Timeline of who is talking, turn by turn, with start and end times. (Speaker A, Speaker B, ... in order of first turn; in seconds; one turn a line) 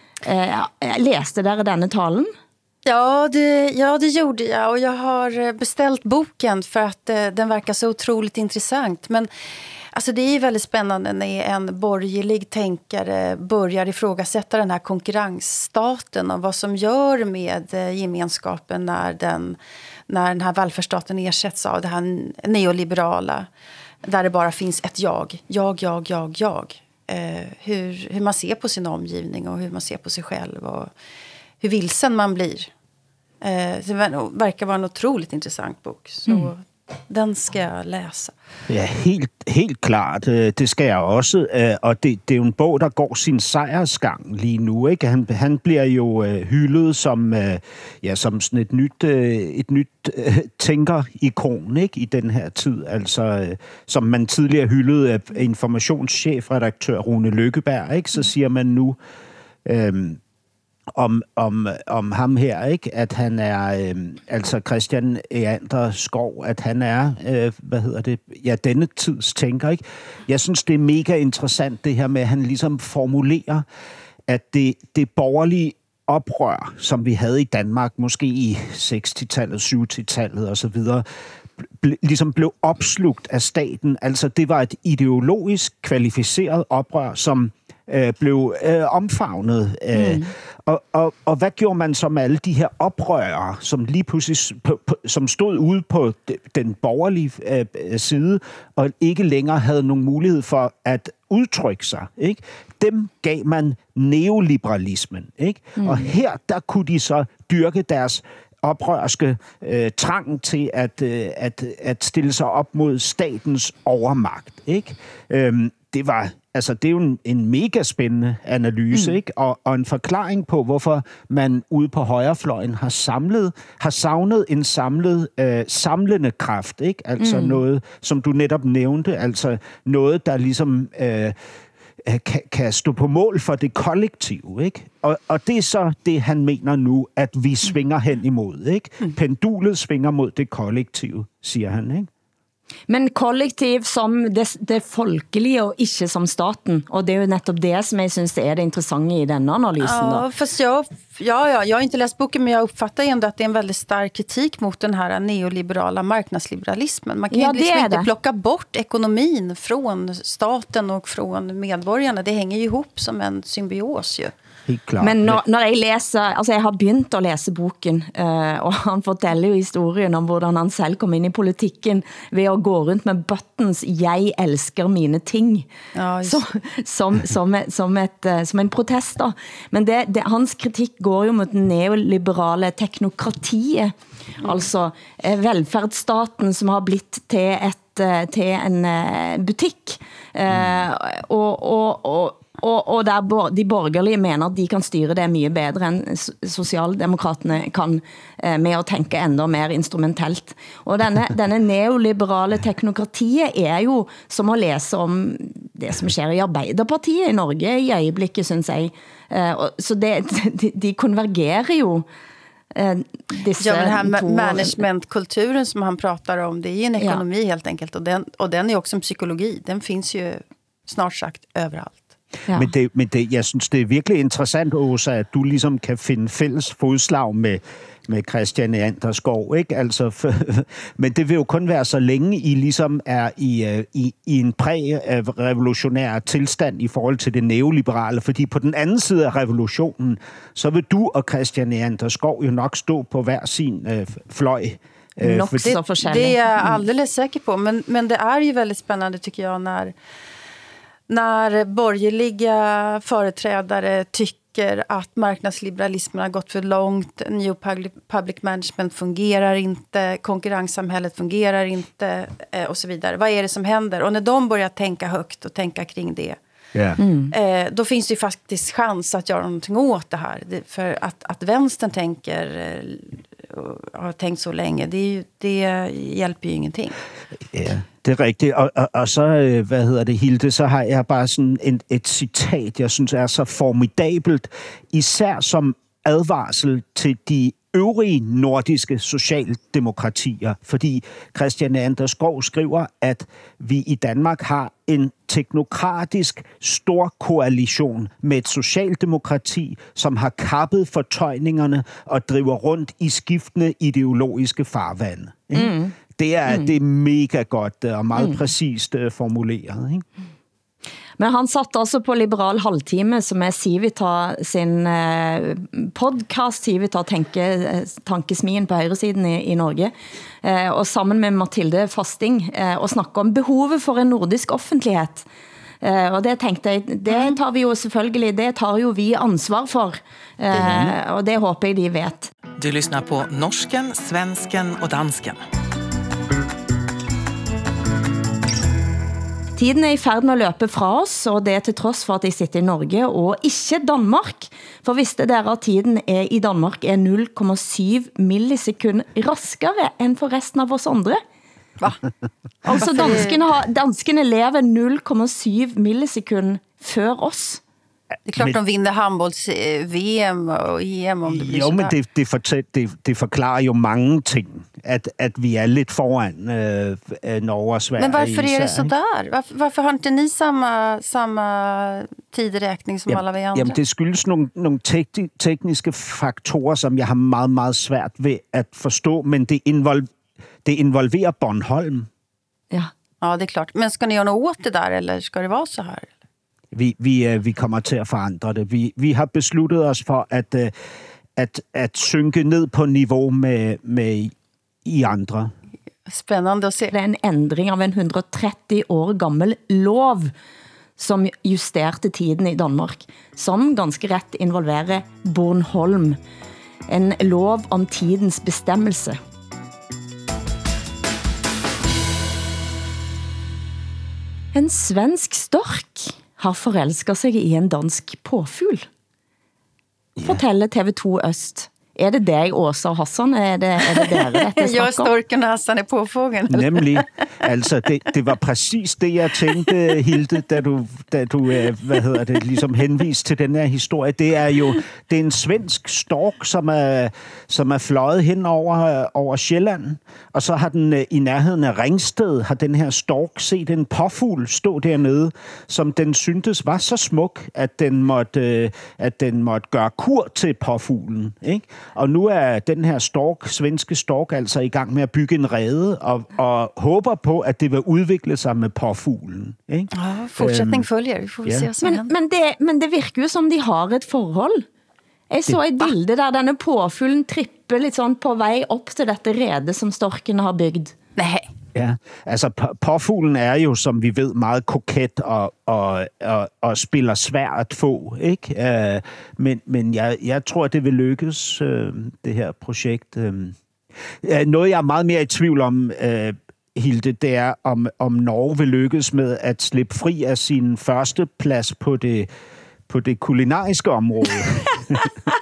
Speaker A: 0.2-2.3
Speaker B: 2.8-9.3
Speaker B: 9.9-19.6
Speaker B: 20.1-23.5
Speaker B: 24.0-30.9
Speaker B: 31.6-32.7
Speaker B: 33.4-38.3
Speaker C: 38.7-59.0
Speaker C: 59.6-60.2
Speaker C: 60.9-73.6
Speaker C: 74.3-81.0
Speaker C: 81.6-131.3
Speaker A: 89.9-90.3
Speaker A: 105.8-106.1
Speaker A: 127.2-127.6
Speaker C: 132.0-142.1
Speaker A: 142.9-150.2
Speaker B: 149.8-164.3
Speaker A: 157.3-158.1
Speaker C: 164.7-165.4
Speaker A: 165.0-175.7
Speaker B: 175.9-176.4
Speaker A: 176.2-212.1
Speaker C: 190.5-190.8
Speaker A: 212.8-214.8
Speaker B: 213.6-222.1
Speaker C: 222.5-245.7
Speaker A: 245.2-246.8
Speaker B: 245.6-249.9
Speaker B: 251.1-266.4
Speaker C: 266.7-267.0
Speaker A: 267.0-267.3
Speaker B: 267.3-276.9
Speaker C: 277.5-310.0
Speaker A: 305.5-305.9
Speaker A: 311.2-319.9
Speaker A: 320.4-325.2
Speaker A: 325.8-332.3
Speaker C: 330.5-330.9
Speaker D: 332.6-335.4
Speaker A: 339.6-351.2
Speaker A: 352.6-357.6
Speaker B: 352.7-353.4
Speaker B: 358.3-361.9
Speaker C: 361.3-368.9
Speaker B: 368.0-373.8
Speaker C: 373.1-380.1
Speaker C: 380.6-382.1
Speaker B: 383.2-386.1
Speaker C: 386.7-390.7
Speaker C: 391.4-394.3
Speaker C: 394.8-395.5
Speaker B: 396.1-396.9
Speaker A: 396.9-400.3
Speaker A: 401.0-406.2
Speaker A: 406.9-409.2
Speaker A: 414.5-418.9
Speaker A: 420.2-425.1
Speaker B: 424.1-427.1
Speaker C: 426.5-460.9
Speaker B: 459.9-462.1
Speaker A: 461.8-464.6
Speaker A: 465.3-470.9
Speaker B: 471.1-471.4
Speaker C: 471.7-483.6
Speaker C: 484.2-492.3
Speaker C: 492.9-495.0